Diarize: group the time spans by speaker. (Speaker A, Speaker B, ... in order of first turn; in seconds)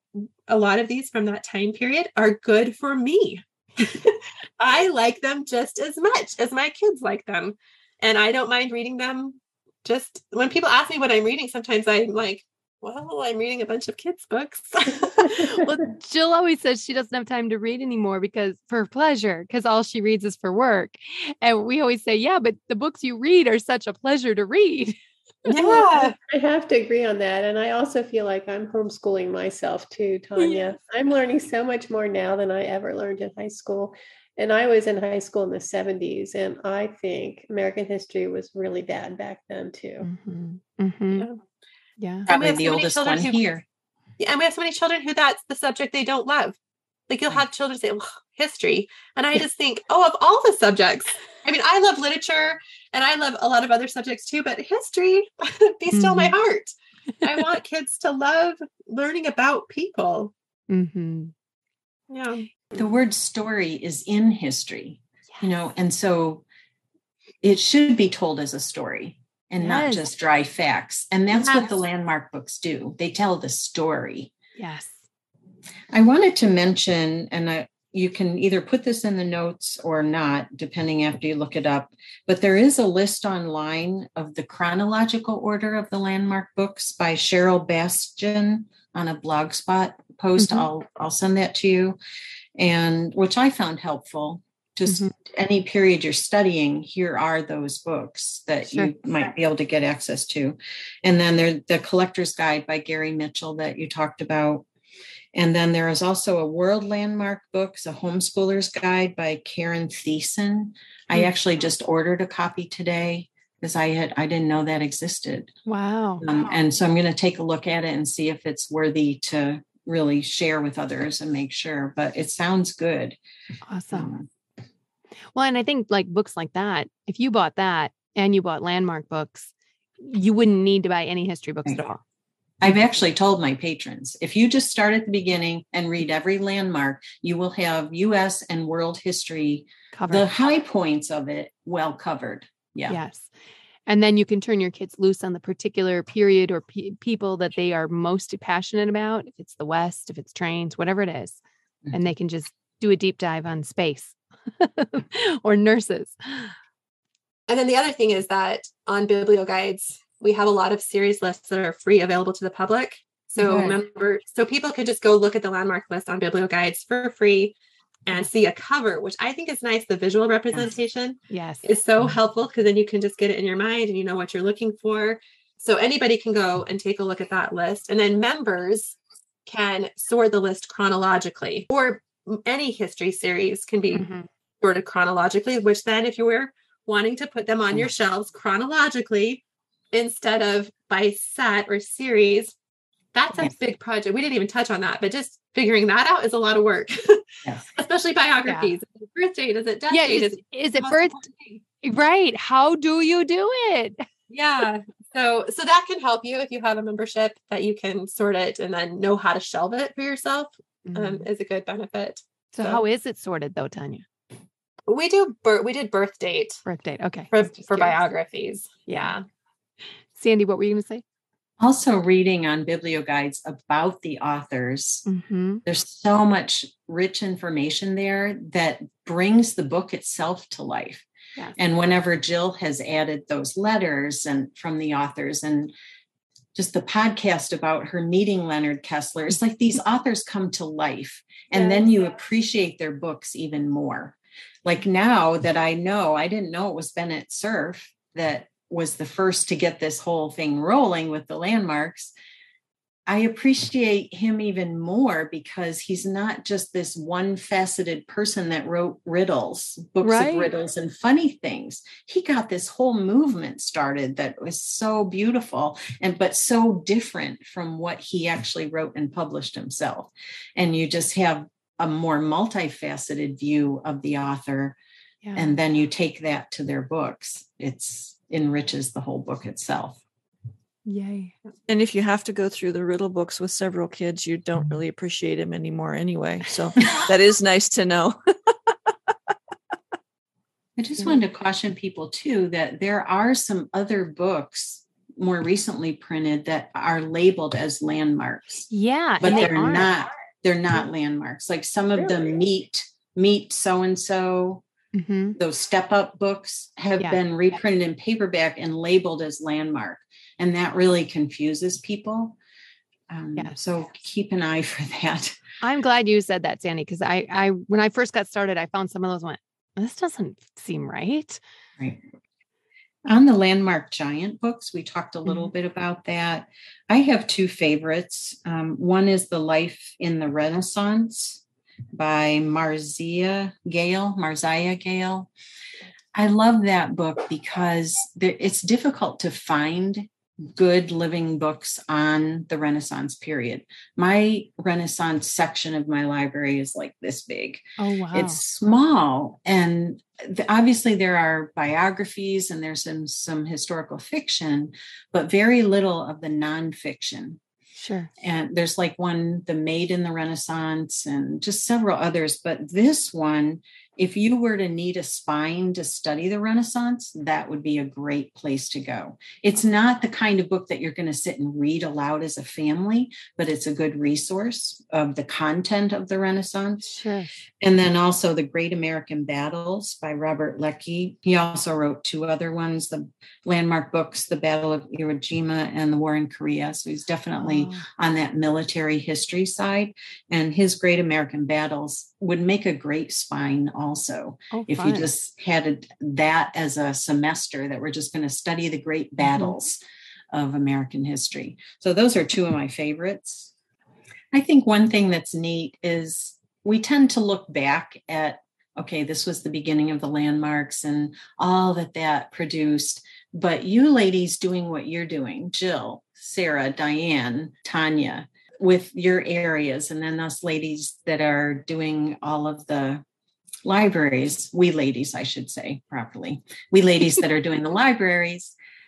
Speaker A: 0.2-15.6, 25.4-26.1, 41.2-41.4, 42.3-43.5, 44.2-46.6, 47.1-56.7, 57.2-60.3, 62.1-62.4, 71.4-71.7, 157.5-167.5, 168.1-184.1, 184.6-192.5, 193.1-201.6, 204.3-212.8, 214.9-216.6, 217.3-219.2
Speaker B: 15.2-25.0, 30.4-30.6, 40.0-41.3, 42.0-42.3, 55.9-56.3, 60.7-61.3, 69.6-70.0, 74.5-75.0, 90.4-90.7, 94.9-95.1, 98.7-98.9, 115.7-116.2, 123.7-124.1, 125.3-132.0, 139.9-140.3, 142.9-143.3, 143.9-151.4, 151.9-156.5, 163.4-163.8, 171.3-171.7, 183.9-184.3, 198.4-198.7, 199.9-201.2, 201.8-204.1, 210.9-211.2, 212.5-214.1, 216.7-218.0, 218.9-219.2, 220.1-221.0, 225.1-225.6, 260.0-260.5, 275.2-275.6, 280.9-281.3, 298.7-299.9, 304.9-305.4, 315.6-321.4, 347.8-348.4, 357.8-358.1, 376.8-377.3, 387.4-387.9, 394.5-395.1, 399.2-399.6
Speaker C: 25.6-40.1
Speaker D: 42.3-43.6, 62.7-66.4, 67.4-74.3, 75.9-92.0, 92.5-104.7, 105.3-115.5, 116.2-123.2, 123.9-124.3, 132.6-143.0, 221.6-225.1, 225.7-235.7, 236.5-252.1, 253.1-274.8, 275.4-280.0, 290.8-298.7, 299.2-304.6, 305.4-312.4, 313.1-315.4, 323.1-331.4, 331.9-335.3, 336.1-357.4, 358.2-376.9, 377.6-399.8, 400.3-403.5, 404.3-423.0, 423.6-428.6
Speaker E: 281.7-288.1